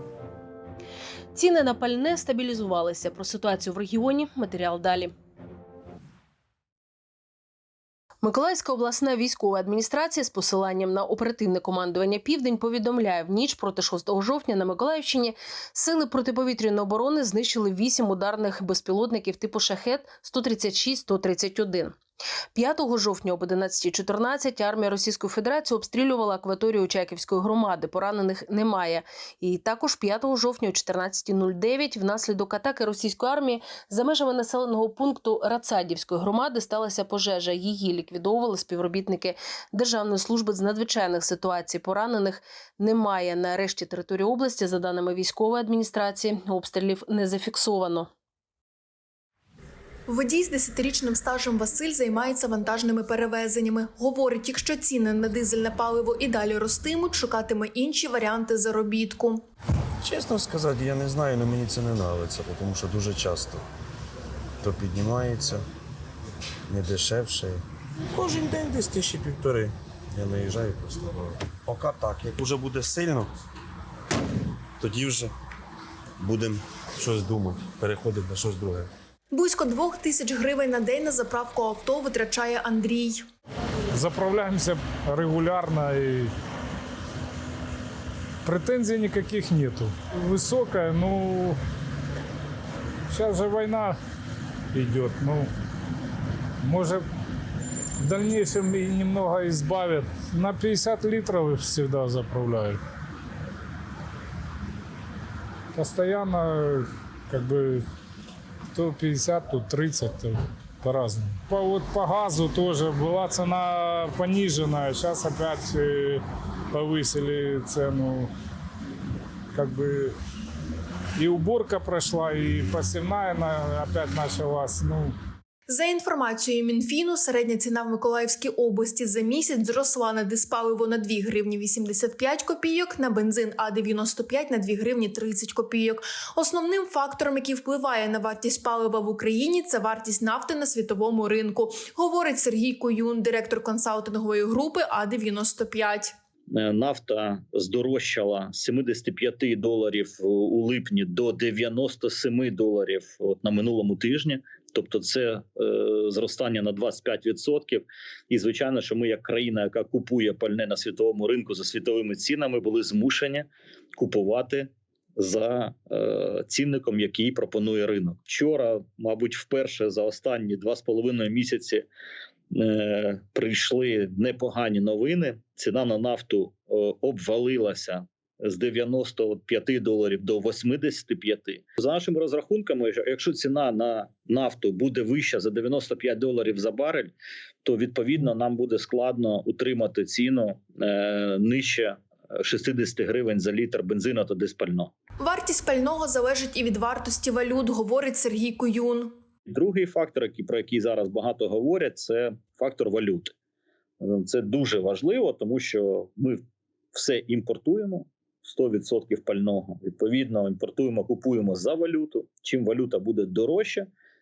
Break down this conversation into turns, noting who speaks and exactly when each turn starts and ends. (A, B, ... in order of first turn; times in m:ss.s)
0:01.3-0:05.1 A
0:08.2-0:22.0 A
0:22.5-0:48.1 A
0:50.1-0:59.4 B
1:00.0-1:03.6 C
1:04.6-1:05.6 C
1:06.7-1:07.5 C
1:08.2-1:13.2 C
1:14.8-1:15.3 C
1:16.2-1:18.8 C
1:19.3-1:23.2 B
1:23.9-1:26.3 D
1:28.4-1:31.6 D
1:33.1-1:34.0 D
1:34.7-1:35.5 D
1:36.6-1:37.0 D
1:38.0-1:42.8 D
1:45.7-1:47.8 D
1:48.7-1:58.3 D
1:59.5-2:00.2 D
2:01.2-2:05.2 D
2:05.7-2:26.1 B
2:26.5-2:51.8 E
2:52.5-3:07.1 E
3:07.6-3:14.9 E
3:15.2-3:19.1 B
3:19.5-3:23.3 E
3:24.0-3:26.4 E
3:26.9-3:33.9 E